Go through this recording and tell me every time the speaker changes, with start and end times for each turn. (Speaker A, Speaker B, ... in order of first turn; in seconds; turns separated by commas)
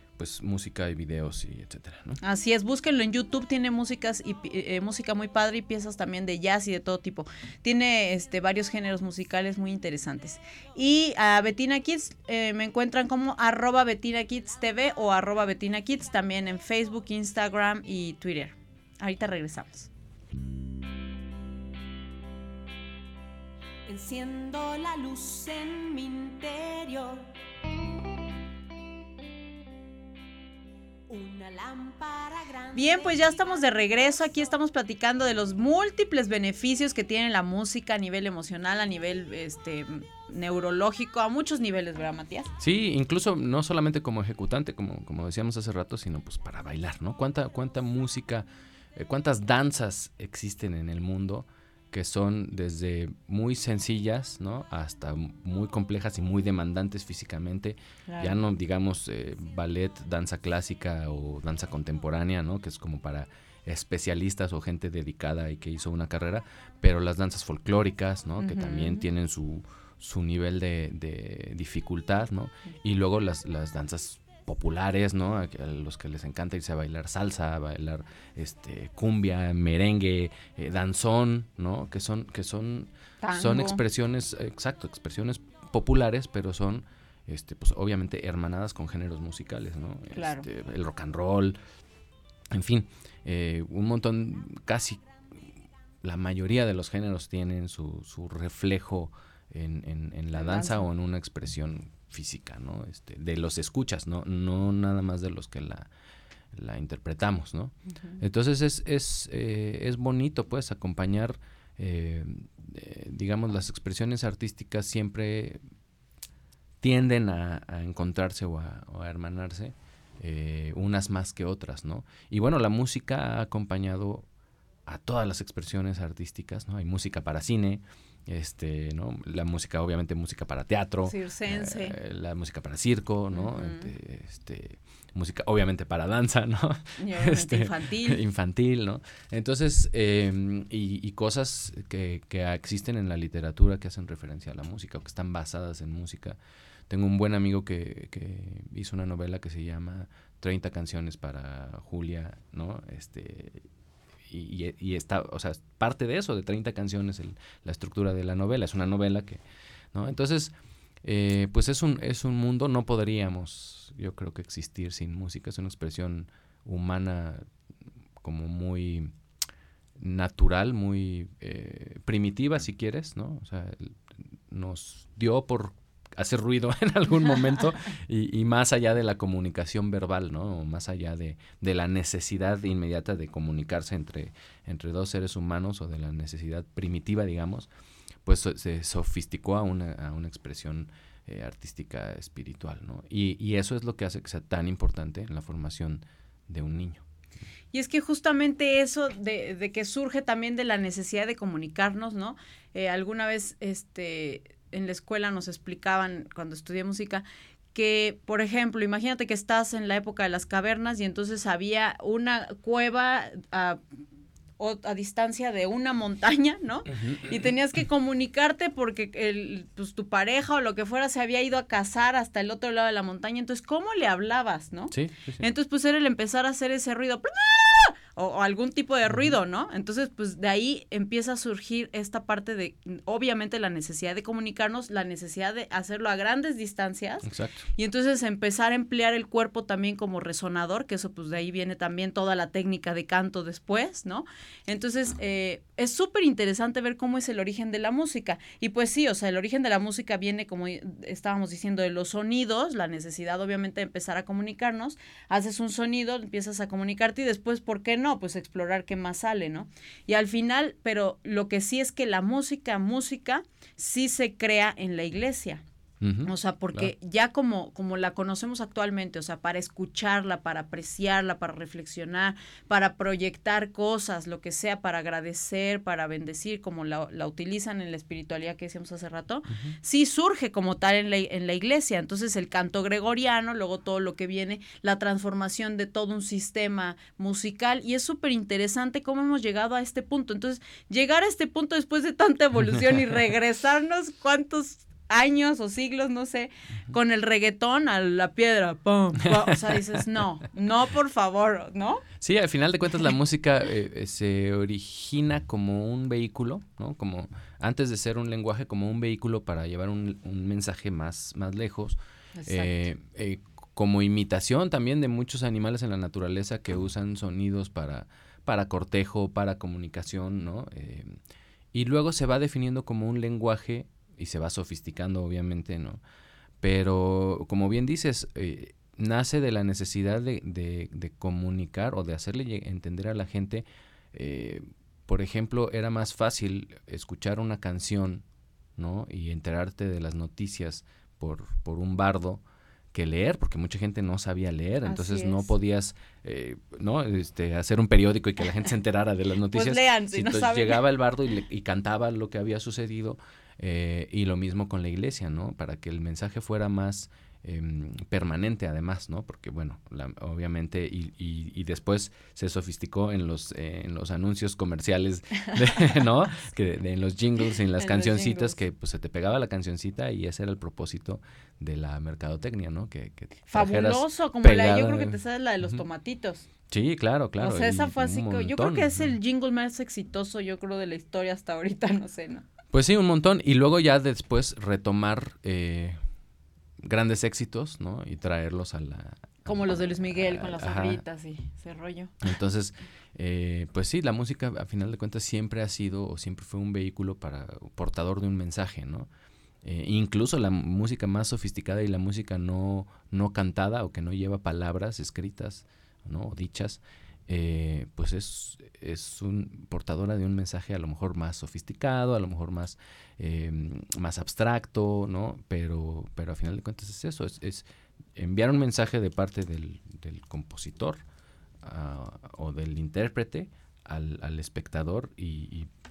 Speaker A: 0.2-2.2, Speaker B: 2.2-19.9, Speaker C: 23.9-27.3, Speaker C: 31.1-34.3, Speaker B: 32.7-42.5, Speaker A: 42.6-91.6, Speaker B: 58.1-58.4, Speaker B: 68.4-69.0, Speaker B: 83.2-83.8, Speaker B: 90.1-90.5, Speaker A: 92.5-95.0, Speaker A: 96.0-105.9, Speaker B: 100.4-100.8, Speaker A: 106.5-115.6, Speaker A: 116.8-124.2, Speaker A: 124.8-146.4, Speaker B: 131.1-131.9, Speaker B: 133.3-133.9, Speaker B: 137.0-138.2, Speaker A: 146.9-153.6, Speaker A: 154.3-159.4, Speaker A: 159.9-167.4, Speaker A: 168.2-169.1, Speaker A: 170.0-187.7, Speaker A: 188.2-197.0, Speaker B: 197.7-213.8, Speaker B: 214.6-265.6, Speaker A: 216.9-217.3, Speaker A: 224.9-225.4, Speaker A: 237.2-237.6, Speaker A: 266.0-266.9, Speaker B: 266.2-302.0, Speaker A: 302.2-321.1, Speaker B: 312.4-312.9, Speaker A: 321.7-326.0, Speaker A: 326.6-338.2, Speaker A: 338.8-375.8, Speaker B: 344.8-345.5, Speaker B: 349.5-350.8, Speaker B: 367.8-368.6, Speaker B: 373.5-376.5, Speaker A: 376.7-379.1, Speaker B: 377.4-382.4, Speaker A: 382.7-386.0, Speaker A: 386.8-391.0, Speaker B: 389.4-392.2, Speaker A: 392.2-399.1, Speaker A: 399.6-417.6, Speaker A: 418.1-421.0, Speaker A: 421.6-425.7